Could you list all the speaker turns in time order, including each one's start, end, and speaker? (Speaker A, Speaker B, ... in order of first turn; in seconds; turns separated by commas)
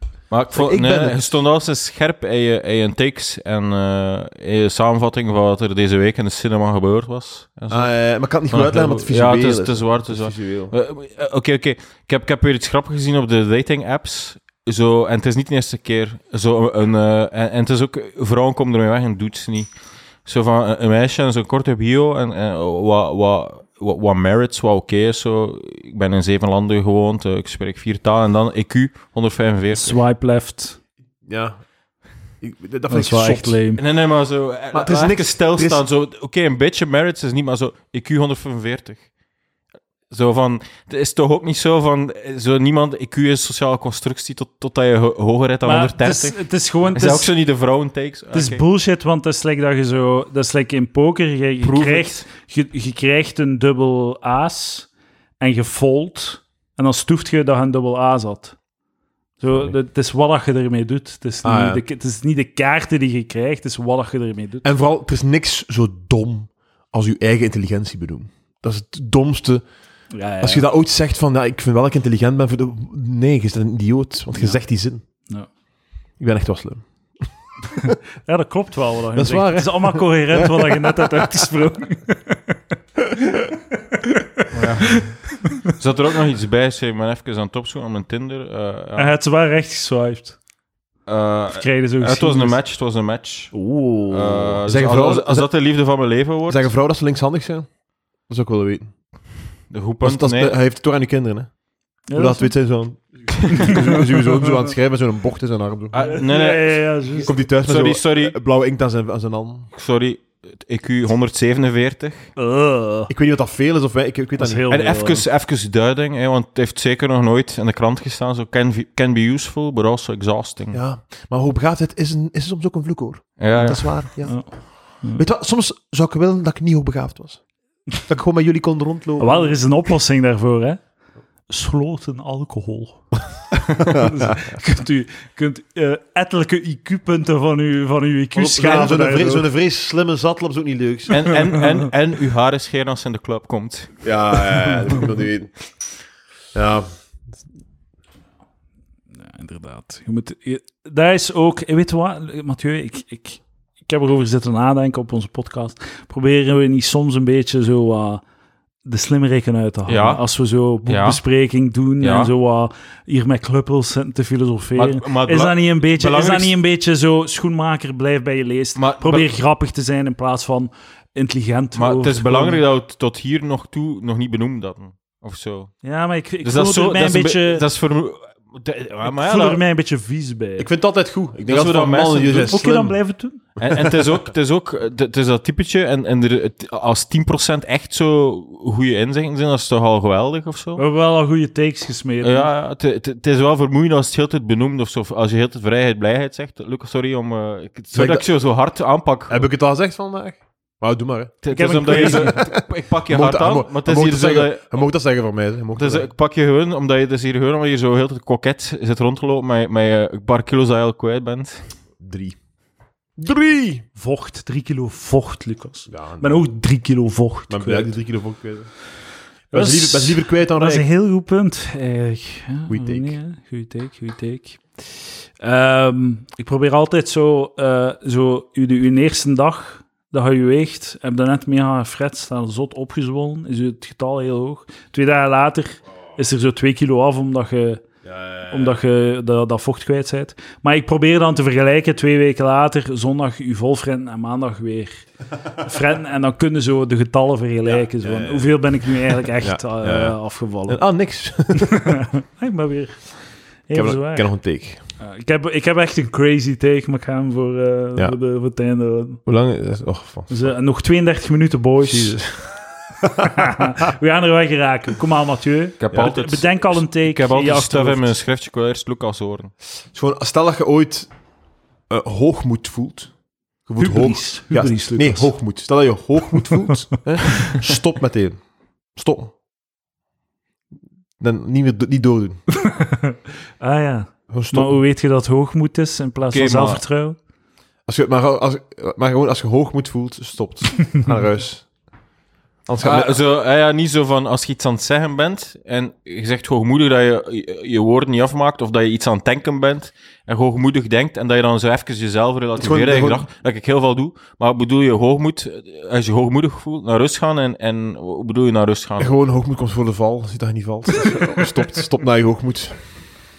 Speaker A: 0.3-7.9, Speaker B: 0.5-1.3, Speaker B: 7.7-10.7, Speaker A: 8.5-19.7, Speaker A: 20.2-30.0, Speaker C: 29.7-30.8, Speaker B: 31.2-31.6, Speaker B: 32.4-33.6, Speaker C: 32.9-33.8, Speaker A: 33.8-39.0, Speaker B: 34.7-35.8, Speaker A: 40.1-48.6, Speaker C: 45.6-47.3, Speaker C: 48.3-54.9, Speaker A: 51.6-52.2, Speaker C: 55.4-58.6, Speaker C: 59.4-64.7, Speaker B: 61.4-61.8, Speaker B: 64.6-69.6, Speaker C: 70.1-70.7, Speaker B: 70.4-75.0, Speaker B: 76.2-76.9, Speaker C: 78.2-82.5, Speaker B: 79.1-81.0, Speaker C: 84.0-85.1, Speaker A: 84.5-89.1, Speaker C: 89.0-90.4, Speaker A: 91.1-96.7, Speaker C: 91.5-92.6, Speaker C: 93.5-94.6, Speaker B: 94.6-95.5, Speaker B: 96.5-97.7, Speaker B: 98.3-98.9, Speaker A: 99.7-100.5, Speaker B: 100.0-101.5, Speaker C: 102.1-102.5, Speaker B: 102.1-106.2, Speaker C: 103.5-103.9, Speaker A: 105.9-108.4, Speaker C: 106.0-107.3, Speaker B: 107.2-109.7, Speaker A: 109.7-112.3, Speaker C: 112.4-113.1, Speaker B: 113.1-114.6, Speaker C: 114.4-115.2, Speaker A: 114.7-120.8, Speaker B: 120.7-127.4, Speaker A: 123.4-124.1, Speaker C: 124.2-125.2, Speaker B: 128.0-129.5, Speaker C: 129.2-130.8, Speaker C: 131.5-133.1, Speaker B: 133.8-134.2, Speaker C: 133.8-139.5, Speaker B: 138.3-141.3, Speaker A: 141.1-144.4, Speaker B: 144.0-145.5, Speaker B: 146.5-146.9, Speaker C: 149.2-158.2, Speaker C: 158.8-172.6, Speaker A: 159.9-161.2, Speaker A: 162.0-162.3, Speaker A: 164.8-166.5, Speaker A: 168.8-169.3, Speaker A: 171.7-175.8, Speaker C: 175.8-177.6, Speaker A: 176.4-179.6, Speaker C: 179.1-180.7, Speaker B: 180.6-183.0, Speaker A: 181.5-182.6, Speaker C: 182.4-183.4, Speaker B: 183.6-184.0, Speaker A: 183.6-190.8, Speaker C: 190.8-192.5, Speaker A: 192.2-199.4, Speaker B: 197.9-198.2, Speaker B: 199.3-206.1, Speaker A: 201.4-204.8, Speaker C: 201.5-202.4, Speaker A: 205.8-211.7, Speaker B: 212.0-212.4, Speaker B: 213.2-213.8, Speaker C: 213.9-217.9, Speaker B: 215.9-216.4, Speaker B: 217.5-218.7, Speaker C: 219.5-237.9, Speaker B: 219.5-220.9, Speaker B: 222.7-223.2, Speaker B: 238.0-238.7, Speaker C: 238.5-250.8, Speaker B: 247.7-248.6, Speaker B: 249.3-252.0, Speaker C: 251.5-254.3, Speaker B: 253.7-254.8, Speaker C: 255.0-259.2, Speaker B: 259.2-260.5, Speaker C: 260.3-262.2, Speaker B: 261.8-263.6, Speaker C: 263.2-268.1, Speaker A: 265.8-269.5, Speaker B: 269.9-271.1, Speaker B: 271.9-273.1, Speaker B: 273.6-278.4, Speaker C: 273.8-275.3, Speaker B: 278.9-279.4, Speaker B: 281.2-282.4, Speaker C: 282.6-287.2, Speaker B: 284.3-284.8, Speaker A: 286.3-286.8, Speaker B: 287.9-291.7, Speaker B: 292.6-293.2, Speaker A: 292.8-309.1, Speaker B: 302.6-303.2, Speaker B: 309.0-312.8